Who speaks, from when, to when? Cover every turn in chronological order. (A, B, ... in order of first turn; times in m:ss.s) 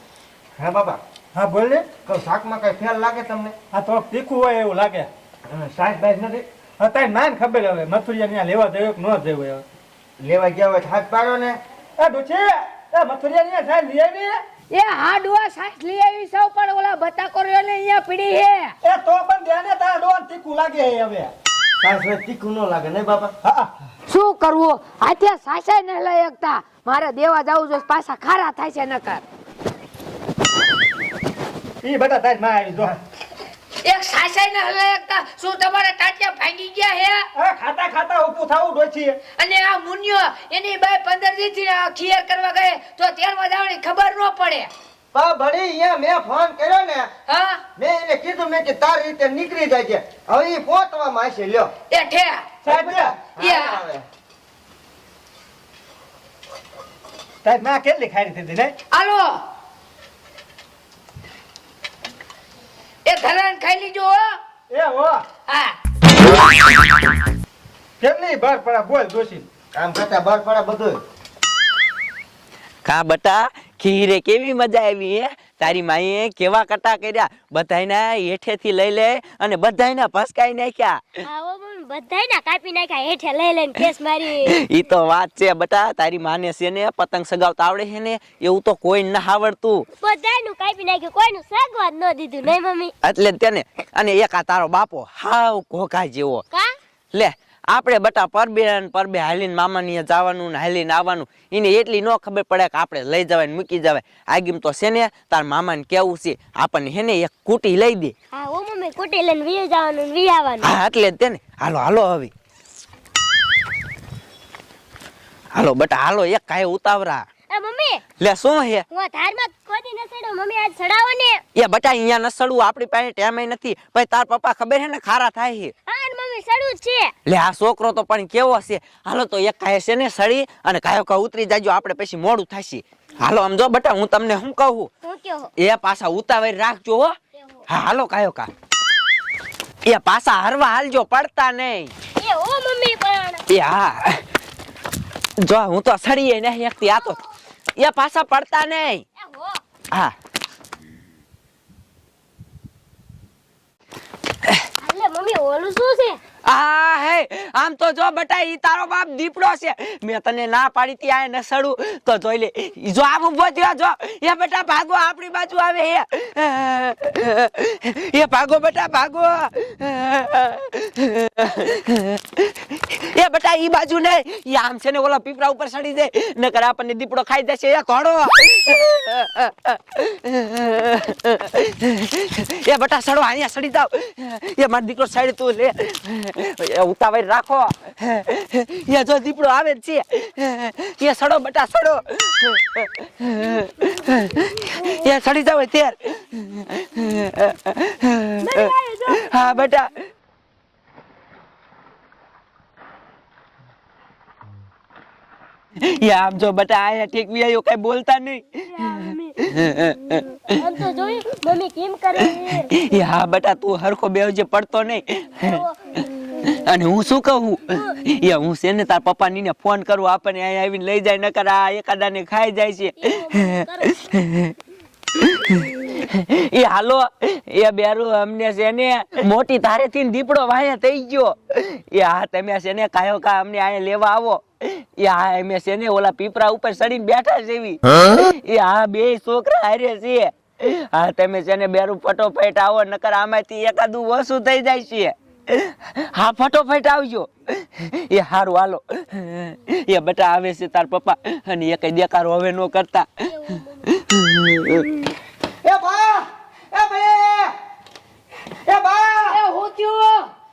0:00.6-0:01.0 A
0:01.4-0:01.8 B
0:02.0-0:03.5 A
0:03.7-0:05.1 B
0:05.4-0:06.4 A
0:06.8-0:09.6 B
0:10.2-0:11.6 A
0:12.0-0:14.4 B
0:14.7-0:18.8 C
0:18.8-0:21.3 B
0:21.8-0:23.3 A
0:24.1-0:29.2 C
0:31.8-0:32.9 B
0:33.8-0:37.3 C
0:37.4-0:39.1 B
0:39.4-0:44.7 C
0:45.1-0:47.1 A
0:47.3-0:47.6 C
0:47.8-0:51.7 A
0:51.9-0:52.4 C
0:52.6-0:54.0 A
0:52.7-0:53.0 B
0:53.4-0:53.8 C
0:57.4-0:58.7 B
0:58.9-0:59.4 C
1:03.0-1:04.4 C
1:04.7-1:05.2 B
1:05.5-1:05.7 C
1:08.0-1:09.4 B
1:09.7-1:11.0 A
1:12.8-1:21.2 D
1:21.2-1:24.6 E
1:24.4-1:29.9 D
1:30.0-1:32.9 E
1:33.0-1:36.4 D
1:37.1-1:48.1 D
1:48.3-1:50.7 E
1:50.6-1:52.3 D
1:55.5-1:57.2 D
1:57.5-1:58.0 E
1:58.2-1:58.8 D
1:58.9-2:01.4 E
2:01.5-2:05.7 D
2:05.8-2:07.1 E
2:07.2-2:14.9 D
2:15.0-2:15.5 E
2:15.6-2:17.2 D
2:17.4-2:17.6 E
2:17.7-2:18.5 D
2:19.8-2:21.9 D
2:22.2-2:23.4 E
2:23.5-2:24.2 D
2:25.4-2:27.2 D
2:27.8-2:29.0 D
2:29.2-2:29.6 E
2:34.8-2:36.2 E
2:36.4-3:19.9 D
3:18.4-3:19.7 E
3:25.8-3:30.4 D
3:28.7-3:29.4 E
3:30.5-3:32.7 E
3:32.5-3:35.6 D
3:35.4-3:36.5 E
3:36.4-3:44.5 D
3:43.0-3:44.0 E
3:45.1-4:14.8 D
4:13.3-4:13.8 E
4:15.6-4:17.5 A
4:18.6-4:19.4 A
4:19.3-4:20.3 C